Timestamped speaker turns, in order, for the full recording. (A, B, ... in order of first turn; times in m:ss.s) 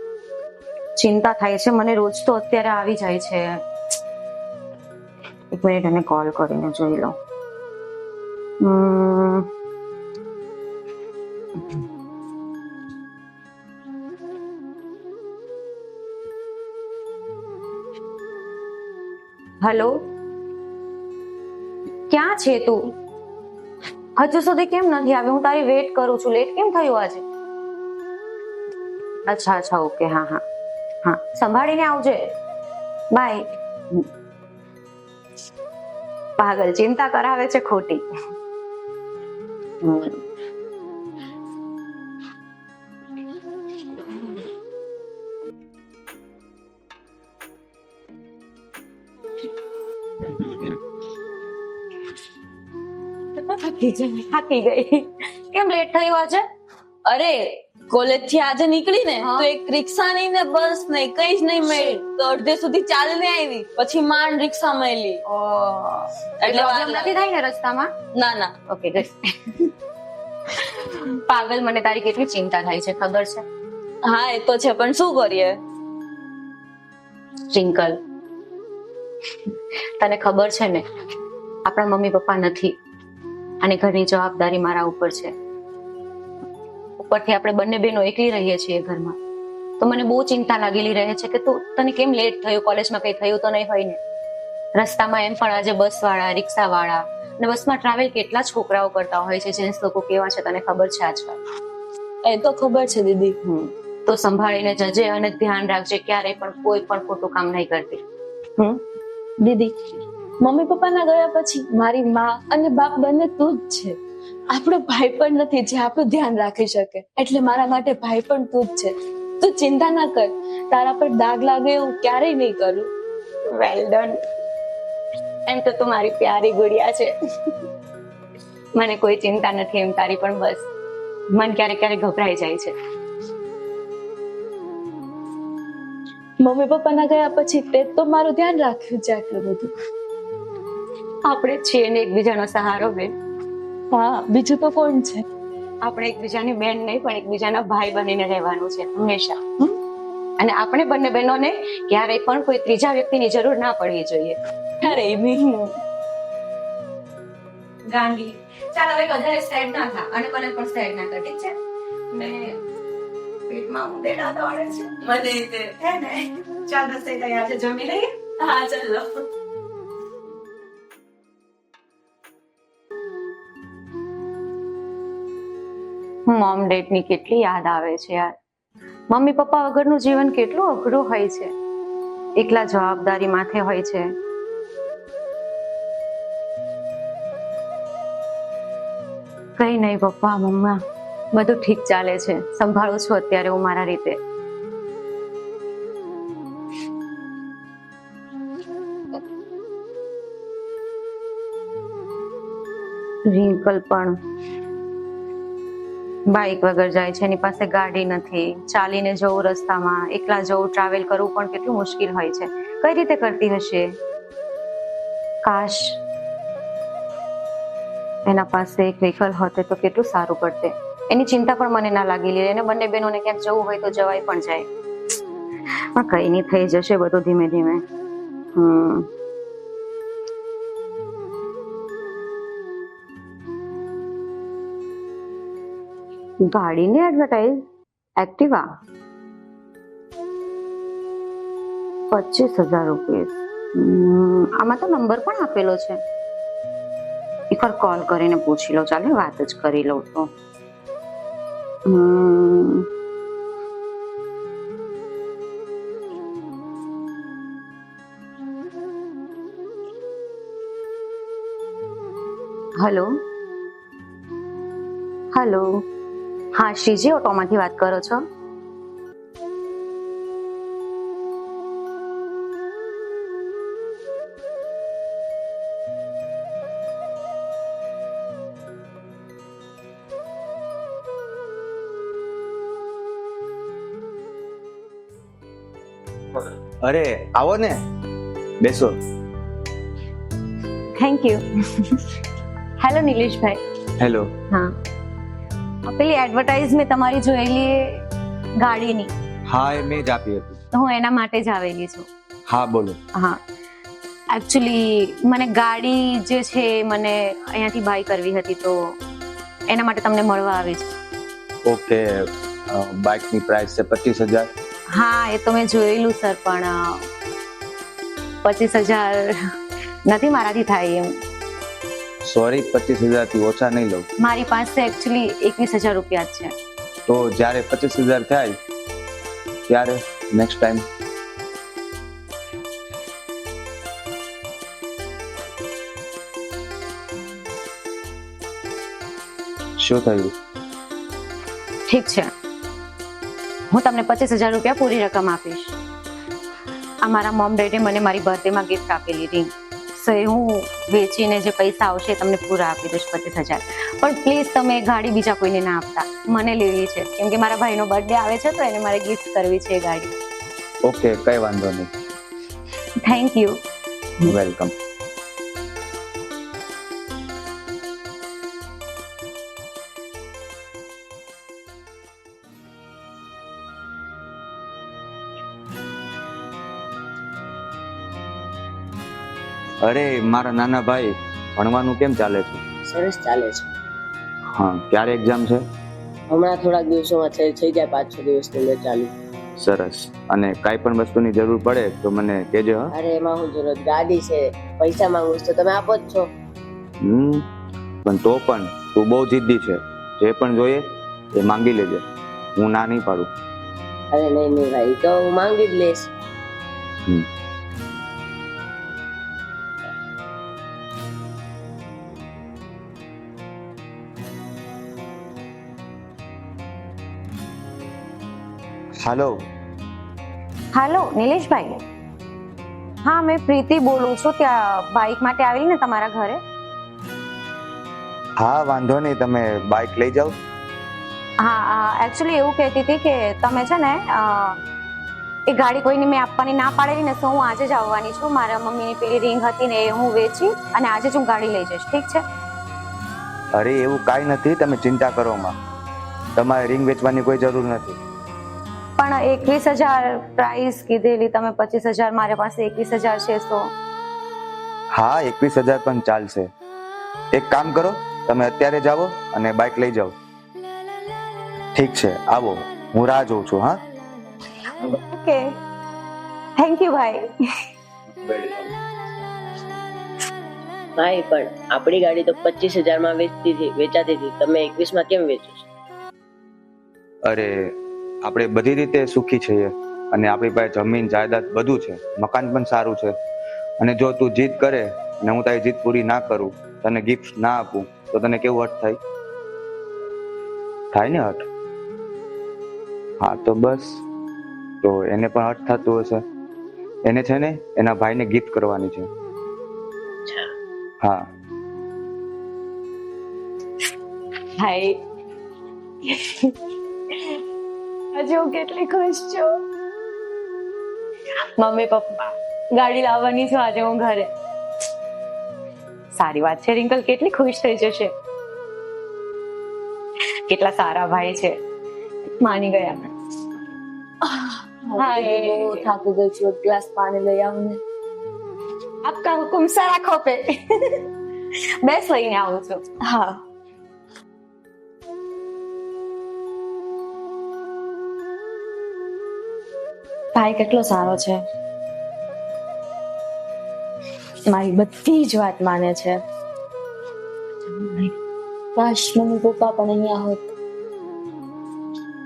0:01.0-0:03.6 A
0:05.5-0:07.1 A
0:08.6-0:09.4 A
0:19.6-0:20.0 A
0:22.1-0:22.9 A
0:24.2-0:27.2 A
0:29.3-0:30.4 A
0:31.0-0:32.2 A
0:33.1-0:34.1 A
0:36.4-0:38.0 A
0:39.8-0:40.2 A
0:53.5-0:56.4 A
0:57.0-1:05.2 B
0:59.2-0:59.5 A
1:05.2-1:07.9 A
1:06.4-1:07.1 B
1:08.2-1:08.5 B
1:08.7-1:09.7 A
1:10.6-1:13.4 A
1:14.0-1:15.6 B
1:17.5-1:18.0 A
1:20.0-1:20.8 A
1:21.6-1:22.8 A
1:23.6-1:25.3 A
1:27.0-1:29.2 A
1:29.8-1:34.0 A
1:34.8-1:41.4 A
1:42.2-1:43.4 B
1:43.4-1:48.0 A
1:49.4-1:49.7 B
1:50.4-1:53.9 B
1:54.5-2:02.9 B
2:03.5-2:04.2 A
2:05.5-2:07.1 A
2:08.8-2:10.7 A
2:11.3-2:12.7 A
2:16.4-2:19.7 B
2:21.2-2:23.1 A
2:23.9-2:25.2 B
2:25.8-2:29.7 A
2:30.4-2:34.4 A
2:34.8-2:35.4 B
2:35.4-2:35.7 A
2:37.9-2:41.5 A
2:42.1-2:42.5 A
2:43.5-2:49.0 A
2:56.3-2:58.3 A
2:59.1-3:01.5 A
3:02.4-3:04.0 A
3:09.6-3:10.8 A
3:11.3-3:14.2 A
3:23.3-3:24.1 A
3:26.3-3:33.8 A
3:35.4-3:36.0 A
3:38.2-3:44.6 A
3:45.9-3:47.8 A
3:48.6-3:49.1 A
3:56.5-3:57.6 A
3:58.2-3:58.6 A
4:02.1-4:06.0 A
4:07.5-4:10.3 A
4:11.9-4:12.8 A
4:22.8-4:23.1 A
4:25.3-4:25.8 A
4:26.5-4:28.2 A
4:46.8-4:47.8 C
4:48.6-4:49.0 C
4:51.0-4:52.0 A
4:52.8-4:53.6 A
4:54.0-4:54.3 C
4:55.8-4:58.0 A
4:58.6-4:59.1 A
4:59.5-5:00.6 C
5:00.7-5:02.1 A
5:02.5-5:03.0 C
5:04.3-5:08.8 A
5:09.7-5:10.9 A
5:11.6-5:12.0 C
5:12.7-5:14.5 C
5:15.0-5:17.0 A
5:18.4-5:19.4 A
5:20.1-5:21.1 A
5:22.2-5:24.0 C
5:24.2-5:26.5 A
5:27.1-5:28.5 C
5:29.7-5:30.8 C
5:39.8-5:40.3 C
5:41.9-5:42.3 A
5:43.7-5:45.8 A
5:47.0-6:00.1 A
6:00.8-6:01.9 C
6:03.0-6:03.6 A
6:04.2-6:04.7 C
6:19.8-6:22.6 C
6:22.9-6:23.7 D
6:24.5-6:25.6 C
6:26.3-6:29.1 D
6:29.6-6:32.9 C
6:32.9-6:36.3 D
6:37.0-6:37.4 C
6:38.0-6:40.8 C
6:41.4-6:42.0 C
6:42.6-6:43.3 C
6:44.1-6:46.1 D
6:59.0-6:59.3 C
7:00.7-7:01.8 A
7:03.0-7:06.4 A
7:08.4-7:10.3 C
7:11.4-7:14.6 A
7:15.5-7:22.2 A
7:23.5-7:25.5 C
7:26.4-7:28.0 C
7:29.0-7:33.7 A
7:34.9-7:36.5 C
7:37.3-7:40.1 C
7:41.7-7:43.8 C
7:44.8-7:45.5 A
7:46.6-7:47.3 A
7:48.2-7:48.7 C
7:51.0-7:55.6 D
7:57.2-8:03.1 C
8:03.8-8:09.0 C
8:10.9-8:11.4 C
8:13.2-8:14.0 C
8:14.8-8:16.2 C
8:17.0-8:19.1 C
8:24.6-8:25.0 A
8:26.0-8:26.5 A
8:28.1-8:29.6 A
8:31.6-8:34.3 A
8:36.1-8:38.1 A
8:40.5-8:41.6 A
8:42.4-8:43.1 A
8:44.2-8:47.8 B
8:45.0-8:45.8 A
8:49.0-8:51.0 A
8:51.8-8:52.8 A
8:53.1-8:53.4 B
9:00.3-9:01.4 B
9:04.5-9:06.2 B
9:07.8-9:08.1 B
9:08.8-9:10.5 B